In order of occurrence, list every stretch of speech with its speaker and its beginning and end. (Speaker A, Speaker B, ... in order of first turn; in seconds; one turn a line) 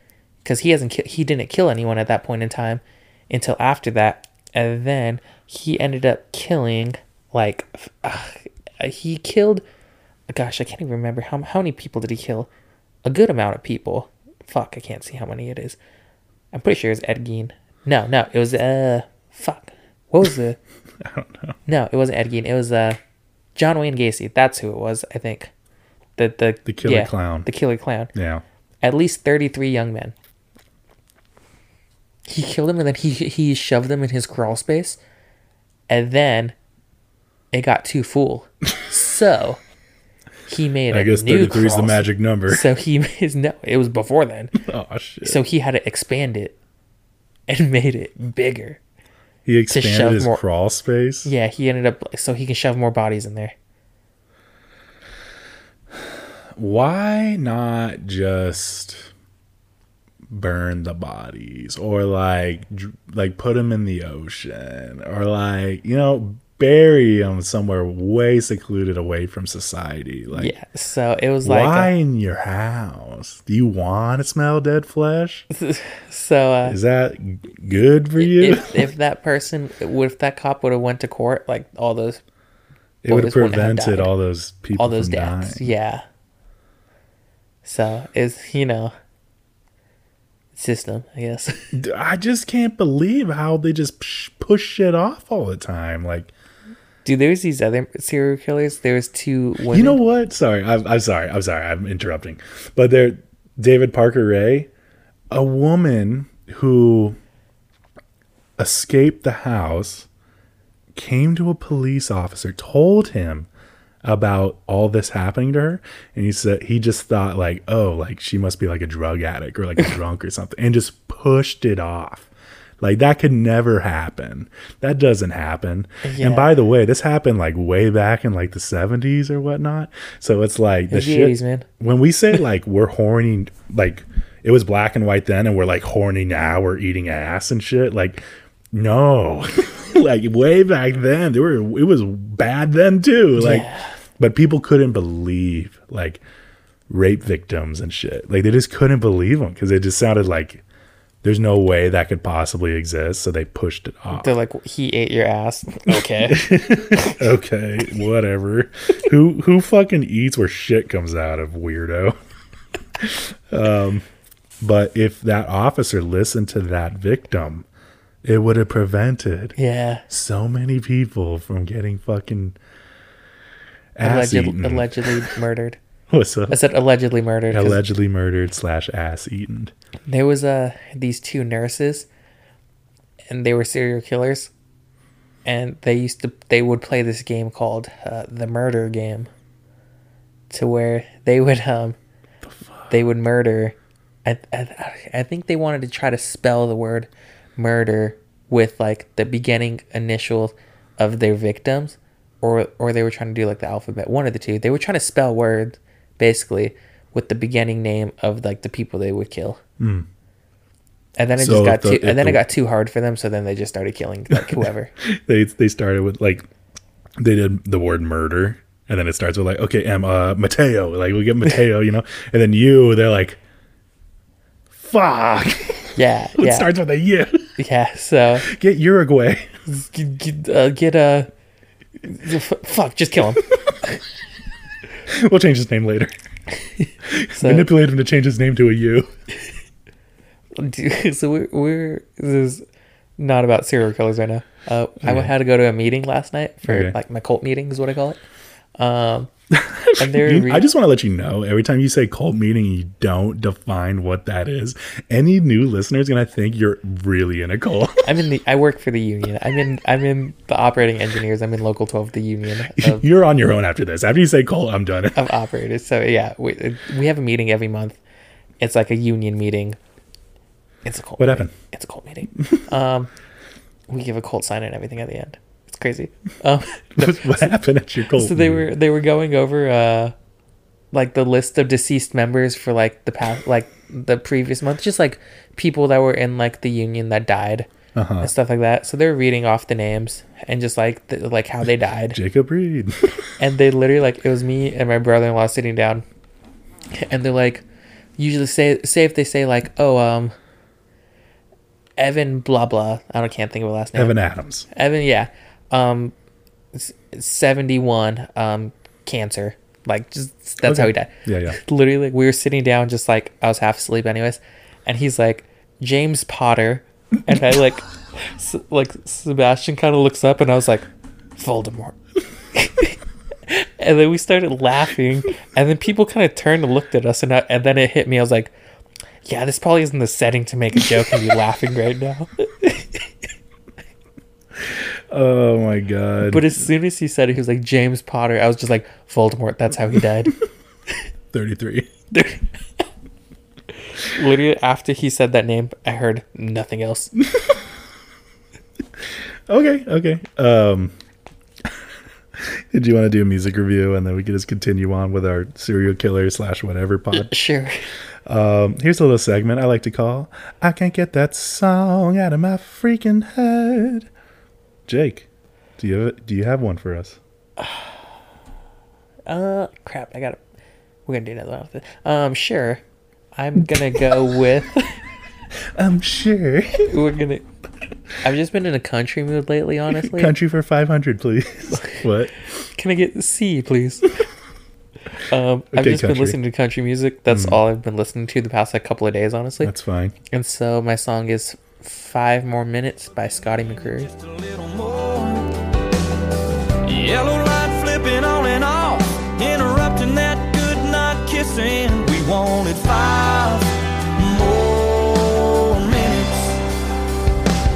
Speaker A: 0.4-9.6
Speaker A: 10.3-12.5
Speaker A: 13.0-15.8
Speaker A: 16.5-20.6
Speaker B: 21.0-21.6
Speaker A: 21.6-23.0
Speaker A: 23.5-25.5
Speaker A: 26.2-28.1
Speaker B: 26.6-27.5
Speaker B: 28.1-28.4
Speaker A: 28.8-30.1
Speaker A: 32.3-35.0
Speaker A: 35.9-36.5
Speaker A: 37.5-39.6
Speaker A: 40.5-44.5
Speaker B: 40.9-42.7
Speaker B: 44.5-45.4
Speaker A: 45.2-46.5
Speaker A: 47.5-48.8
Speaker B: 49.5-51.3
Speaker A: 49.7-50.4
Speaker A: 51.2-53.5
Speaker B: 56.5-59.1
Speaker B: 60.3-70.5
Speaker A: 70.3-71.9
Speaker B: 71.4-75.5
Speaker A: 75.5-76.8
Speaker B: 76.6-78.9
Speaker A: 78.2-82.2
Speaker B: 83.0-85.7
Speaker A: 83.1-84.1
Speaker A: 84.8-86.0
Speaker A: 87.6-88.9
Speaker A: 90.5-91.7
Speaker B: 91.7-96.3
Speaker A: 97.0-100.0
Speaker B: 99.7-104.7
Speaker B: 105.3-107.2
Speaker B: 108.6-110.1
Speaker B: 110.9-113.5
Speaker B: 114.0-122.3
Speaker B: 122.8-146.2
Speaker A: 126.0-126.6
Speaker A: 130.9-131.7
Speaker A: 143.3-143.9
Speaker B: 146.9-150.6
Speaker B: 151.2-154.3
Speaker A: 154.1-157.1
Speaker B: 156.2-162.2
Speaker B: 163.0-164.1
Speaker B: 164.6-167.7
Speaker B: 168.2-169.6
Speaker A: 169.6-170.0
Speaker B: 170.1-172.6
Speaker B: 173.9-175.3
Speaker A: 174.0-175.8
Speaker B: 176.1-176.6
Speaker A: 176.5-177.8
Speaker B: 177.5-179.7
Speaker A: 180.1-182.1
Speaker A: 183.3-184.5
Speaker A: 185.4-189.3
Speaker A: 190.5-191.9
Speaker B: 192.4-192.9
Speaker A: 192.9-209.6
Speaker B: 209.8-210.1
Speaker A: 211.2-214.9
Speaker B: 211.3-212.4
Speaker B: 214.3-216.4
Speaker B: 217.2-223.4
Speaker B: 224.7-227.5
Speaker A: 225.9-226.7
Speaker A: 227.6-228.5
Speaker B: 228.4-229.5
Speaker A: 229.7-231.3
Speaker A: 232.0-234.0
Speaker B: 235.1-236.1
Speaker A: 236.7-237.7
Speaker B: 237.1-239.1
Speaker A: 240.6-242.6
Speaker A: 243.2-248.2
Speaker B: 245.0-245.3
Speaker B: 246.6-246.9
Speaker A: 248.8-249.3
Speaker B: 249.5-258.1
Speaker A: 250.0-250.7
Speaker A: 258.0-263.0
Speaker B: 262.7-265.2
Speaker A: 265.1-268.0
Speaker A: 268.6-269.8
Speaker A: 270.8-273.1
Speaker B: 271.2-271.5
Speaker A: 273.9-277.5
Speaker B: 276.9-278.7
Speaker A: 278.1-280.1
Speaker A: 280.9-287.7
Speaker B: 287.9-288.3
Speaker A: 288.2-292.2
Speaker B: 292.1-293.1
Speaker A: 293.4-296.0
Speaker A: 296.9-297.6
Speaker A: 298.2-300.3
Speaker A: 302.0-304.1
Speaker B: 303.9-304.7
Speaker A: 304.7-306.1
Speaker A: 306.7-320.9
Speaker B: 310.6-311.6
Speaker A: 321.4-322.0
Speaker A: 322.5-328.5
Speaker A: 329.2-333.0
Speaker B: 334.6-336.6
Speaker A: 336.3-340.3
Speaker B: 341.3-341.9
Speaker A: 342.1-342.4
Speaker A: 343.9-347.1
Speaker B: 349.5-350.9
Speaker B: 352.3-357.3
Speaker A: 357.1-357.9
Speaker B: 358.2-364.1
Speaker B: 364.9-365.3
Speaker B: 365.8-367.2
Speaker A: 367.6-367.9
Speaker A: 369.3-370.4
Speaker A: 371.1-372.8
Speaker A: 373.3-375.0
Speaker B: 375.7-376.9
Speaker A: 376.8-377.4
Speaker A: 378.2-380.3
Speaker B: 379.9-382.4
Speaker A: 382.6-384.1
Speaker A: 385.2-389.7
Speaker B: 385.7-386.4
Speaker B: 387.3-387.6
Speaker B: 389.6-390.1
Speaker A: 390.3-394.1
Speaker C: 393.9-395.5
Speaker C: 396.8-406.6